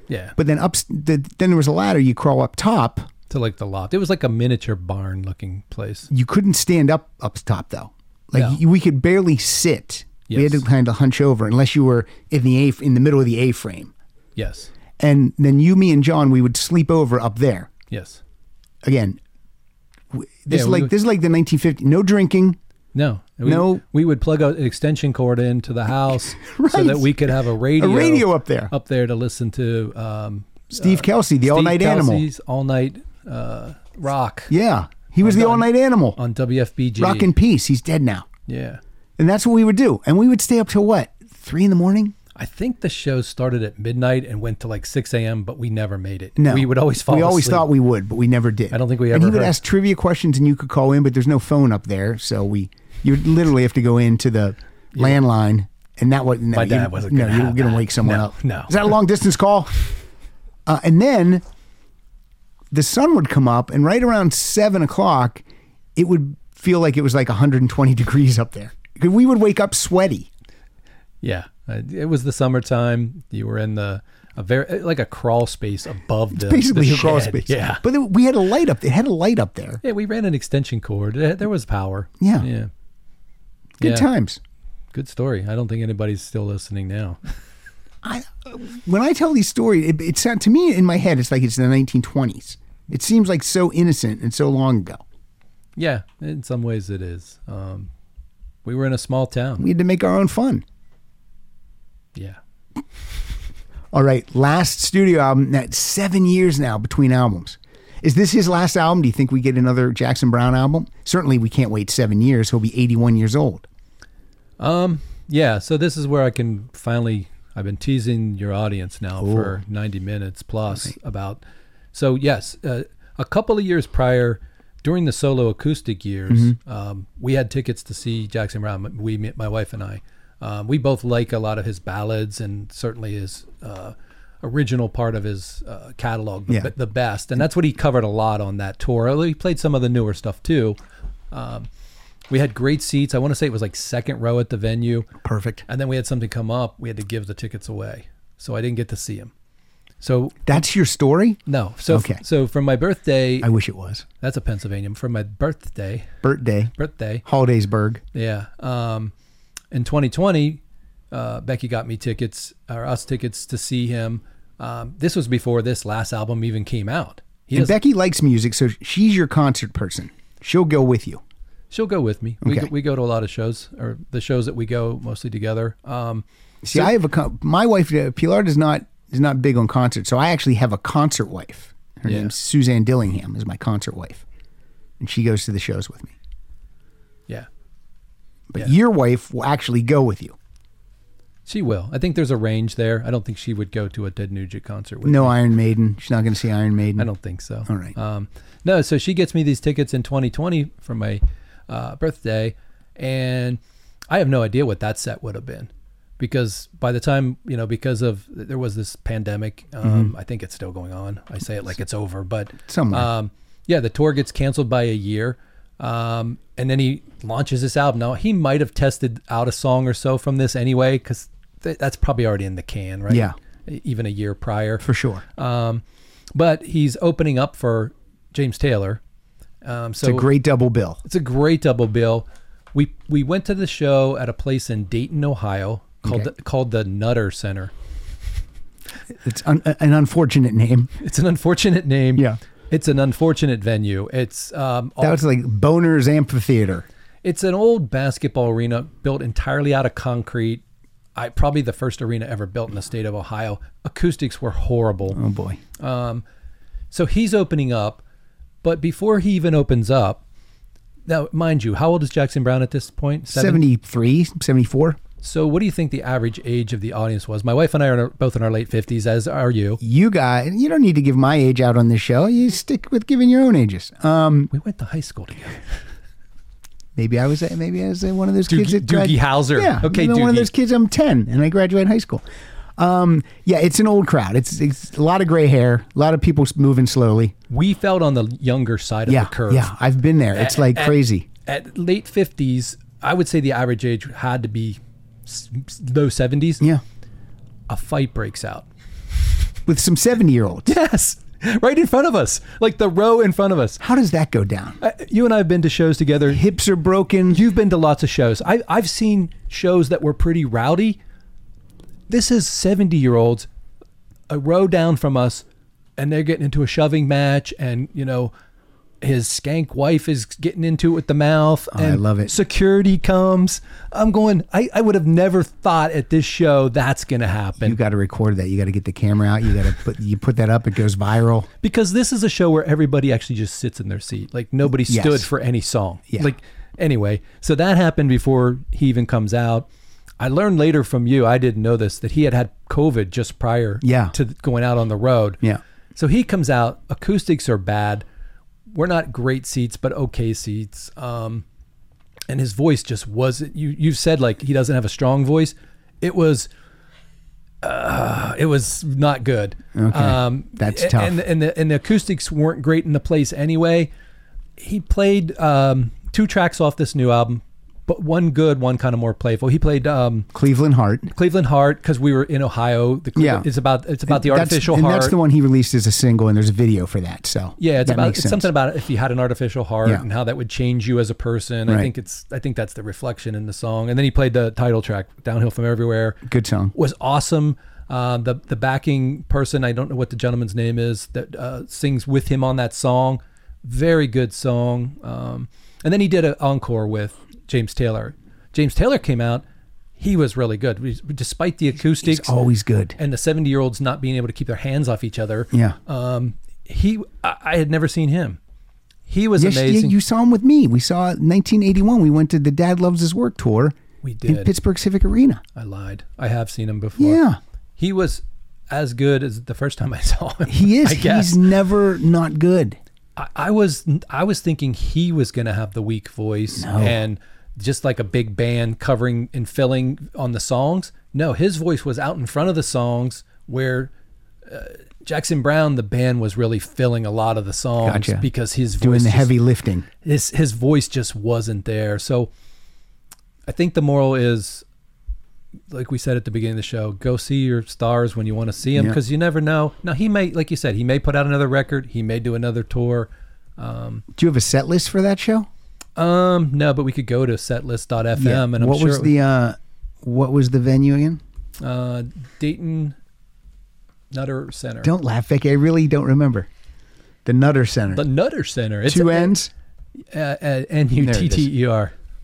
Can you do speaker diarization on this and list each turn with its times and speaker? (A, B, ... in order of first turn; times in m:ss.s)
0:00.1-0:00.4 A
0:00.4-0:03.1 B
0:03.3-0:06.1 A
0:06.1-0:13.9 B
0:08.3-0:08.6 A
0:10.3-0:10.6 A
0:14.4-0:14.7 A
0:15.0-0:17.7 B
0:17.9-0:18.2 A
0:18.8-0:19.2 B
0:20.1-0:22.6 B
0:20.5-0:20.9 A
0:22.9-0:34.5 A
0:23.4-0:23.8 B
0:26.4-0:28.7 B
0:30.7-0:32.3 B
0:34.5-0:36.2 B
0:35.2-0:37.3 A
0:37.0-0:38.3 B
0:38.5-0:38.8 A
0:39.2-0:42.2 B
0:42.4-0:47.7 A
0:46.4-1:00.0 B
0:48.7-0:49.6 A
0:56.5-0:58.9 A
1:00.7-1:01.4 B
1:02.7-1:05.4 B
1:06.0-1:10.3 B
1:11.2-1:17.8 A
1:16.3-1:19.8 B
1:19.8-1:22.7 A
1:22.2-1:22.5 B
1:23.8-1:24.1 A
1:23.8-1:24.4 B
1:24.9-1:27.2 A
1:28.0-1:35.0 B
1:35.8-1:37.9 A
1:38.6-1:39.7 A
1:39.6-1:40.6 B
1:43.9-1:53.7 B
1:54.6-2:01.4 A
1:59.2-1:59.6 B
2:01.9-2:20.8 A
2:21.3-2:21.7 A
2:22.3-2:25.1 A
2:25.2-2:25.7 B
2:25.7-2:29.3 A
2:30.0-2:30.6 A
2:30.5-2:32.2 B
2:31.5-2:33.5 A
2:33.4-2:34.0 B
2:34.2-2:36.1 A
2:36.2-2:38.0 B
2:36.8-2:37.2 A
2:38.1-2:39.1 A
2:39.7-2:40.6 A
2:41.1-2:47.8 A
2:47.5-2:51.2 B
2:51.7-2:56.9 A
2:52.4-2:52.7 B
2:56.6-3:04.2 B
3:02.1-3:02.3 A
3:05.0-3:06.2 B
3:08.5-3:10.4 B
3:11.5-3:15.4 A
3:15.0-3:17.1 B
3:17.0-3:45.8 A
3:17.7-3:17.9 B
3:29.8-3:30.1 B
3:32.7-3:33.1 B
3:43.1-3:43.4 B
3:44.8-3:45.2 B
3:46.4-3:49.0 A
3:49.6-3:50.3 A
3:50.0-3:51.0 B
3:51.0-3:57.7 A
3:56.0-3:56.3 B
3:59.2-4:00.9 B
4:01.0-4:05.2 A
4:05.0-4:06.9 B
4:07.2-4:10.6 A
4:11.2-4:15.2 A
4:15.1-4:15.6 B
4:15.8-4:16.2 A
4:16.9-4:18.0 A
4:18.6-4:20.2 A
4:21.1-4:23.6 A
4:23.3-4:25.0 B
4:25.2-4:29.8 A
4:29.8-4:34.5 B
4:34.5-4:35.6 A
4:37.0-4:42.2 B
4:38.5-4:40.5 A
4:42.8-4:47.4 B
4:47.5-4:49.7 A
4:49.1-4:51.3 B
4:50.3-4:56.7 A
4:57.7-4:58.7 A
4:59.7-5:00.8 B
5:00.7-5:03.8 A
5:03.8-5:04.8 B
5:04.8-5:06.4 A
5:06.3-5:07.4 B
5:07.3-5:11.0 A
5:12.1-5:13.5 A
5:14.3-5:15.4 A
5:16.0-5:18.3 A
5:19.0-5:27.8 A
5:21.7-5:22.3 B
5:27.6-5:31.5 B
5:31.6-5:39.7 A
5:34.8-5:35.3 B
5:40.2-5:45.4 A
5:43.8-5:44.2 B
5:46.0-5:48.0 A
5:48.7-5:51.4 A
5:52.3-5:56.5 A
5:57.6-6:03.9 A
5:59.8-6:01.2 B
6:04.6-6:10.3 A
6:10.3-6:11.1 B
6:11.1-6:15.2 A
6:13.2-6:13.5 B
6:14.1-6:18.5 B
6:17.6-6:39.4 A
6:26.3-6:26.7 B
6:40.0-6:42.4 A
6:41.9-6:43.0 B
6:43.0-6:48.4 A
6:45.5-6:45.8 B
6:49.1-6:50.0 A
6:49.4-6:55.4 B
6:54.0-6:54.5 A
6:55.6-6:57.2 A
6:57.0-6:57.4 B
6:57.8-7:01.4 A
7:00.5-7:02.8 B
7:03.2-7:13.9 A
7:06.6-7:07.0 B
7:14.4-7:19.4 A
7:17.8-7:18.3 B
7:18.8-7:19.9 B
7:20.0-7:22.3 A
7:23.5-7:24.6 A
7:25.7-7:34.0 A
7:28.7-7:29.0 B
7:34.2-7:35.5 B
7:36.0-7:39.1 A
7:38.2-7:41.2 B
7:41.6-7:43.0 A
7:44.1-7:44.9 A
7:44.8-7:46.5 B
7:47.2-7:48.0 B
7:47.9-7:49.4 A
7:48.9-7:49.5 B
7:50.1-7:51.9 A
7:51.0-7:51.5 B